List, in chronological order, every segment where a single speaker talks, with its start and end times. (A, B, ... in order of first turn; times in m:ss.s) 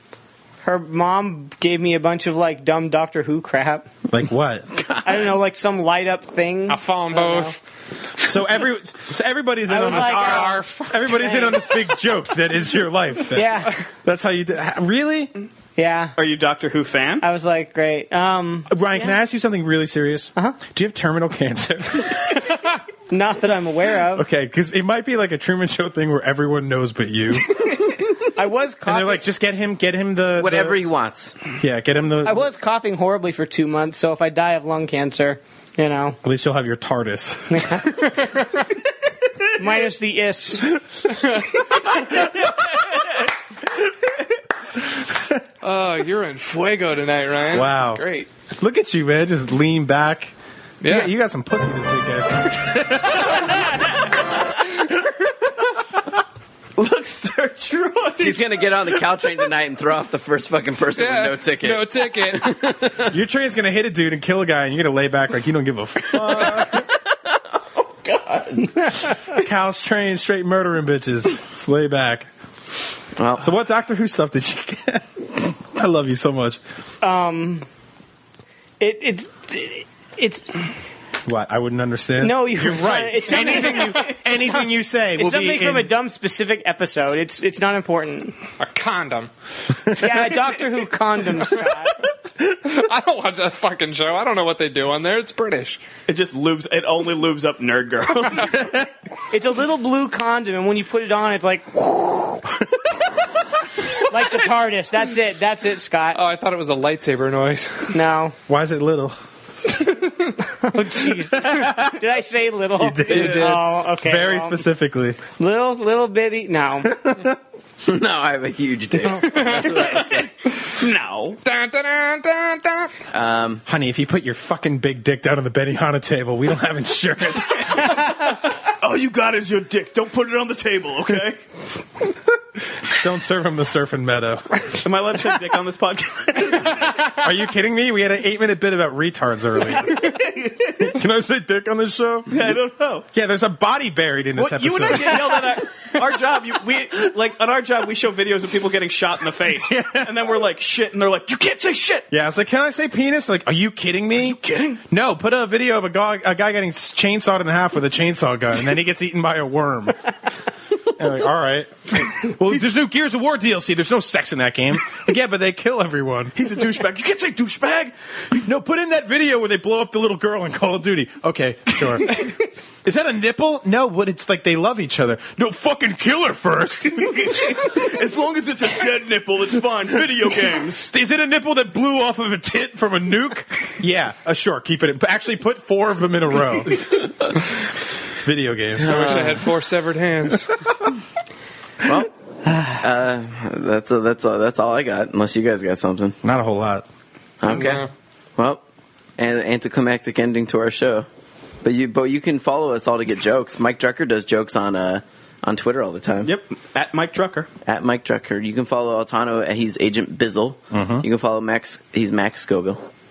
0:00.6-0:03.9 A
0:04.1-0:04.7 B
0:04.7-0:05.3 C
0:05.0-0:07.6 A
0:06.7-0:07.6 D
0:08.2-0:15.3 B
0:09.7-0:11.6 A
0:09.8-0:11.4 D
0:13.3-0:13.8 A
0:15.8-0:16.2 A
0:16.2-0:17.2 E
0:17.2-0:19.1 A
0:18.7-0:22.5 B
0:23.1-0:24.3 A
0:24.1-0:27.9 B
0:28.4-0:29.2 A
0:28.8-0:30.8 B
0:30.4-0:31.4 C
0:31.6-0:32.5 B
0:32.2-0:36.2 A
0:36.2-0:38.0 B
0:37.5-0:38.2 A
0:39.6-0:40.8 A
0:45.6-0:48.3 D
0:47.5-0:48.1 B
0:48.6-0:50.3 B
0:50.8-0:51.1 D
0:50.8-0:53.6 B
0:56.8-0:58.5 E
0:58.2-1:03.2 C
1:00.9-1:02.8 D
1:03.1-1:06.8 B
1:06.1-1:08.8 C
1:09.3-1:12.3 B
1:13.2-1:13.5 C
1:13.4-1:16.6 B
1:17.0-1:17.7 A
1:18.8-1:20.7 A
1:21.2-1:25.9 B
1:22.2-1:24.6 A
1:25.2-1:28.4 A
1:28.6-1:29.3 D
1:30.0-1:31.9 A
1:32.5-1:35.8 D
1:36.1-1:38.6 E
1:39.3-1:42.4 A
1:44.1-1:46.2 A
1:46.1-1:47.9 D
1:47.9-1:48.4 A
1:48.5-1:49.2 B
1:50.6-1:54.7 A
1:51.3-1:52.0 B
1:52.8-1:55.2 B
1:55.4-1:57.0 A
1:56.9-1:57.4 B
1:57.8-2:00.3 C
1:59.0-2:00.2 D
2:00.8-2:01.4 E
2:01.4-2:02.9 D
2:03.1-2:03.6 C
2:03.7-2:08.1 B
2:08.8-2:11.4 E
2:12.9-2:14.8 B
2:14.8-2:17.0 E
2:16.5-2:20.1 B
2:20.0-2:20.9 E
2:20.8-2:22.4 B
2:22.3-2:23.1 E
2:23.1-2:25.5 B
2:24.4-2:32.1 E
2:29.6-2:30.2 B
2:32.1-2:40.0 B
2:34.2-2:34.8 E
2:40.9-2:46.3 B
2:46.4-2:47.9 E
2:48.4-2:57.3 B
2:57.0-3:00.9 E
3:00.8-3:07.0 B
3:08.2-3:09.4 B
3:08.8-3:09.5 C
3:08.8-3:10.6 D
3:11.8-3:12.1 C
3:12.5-3:12.8 A
3:12.7-3:16.2 C
3:16.2-3:16.8 B
3:17.4-3:18.6 C
3:17.5-3:17.9 D
3:19.2-3:21.1 C
3:21.6-3:26.3 C
3:26.2-3:27.5 E
3:27.7-3:32.8 C
3:30.7-3:31.0 B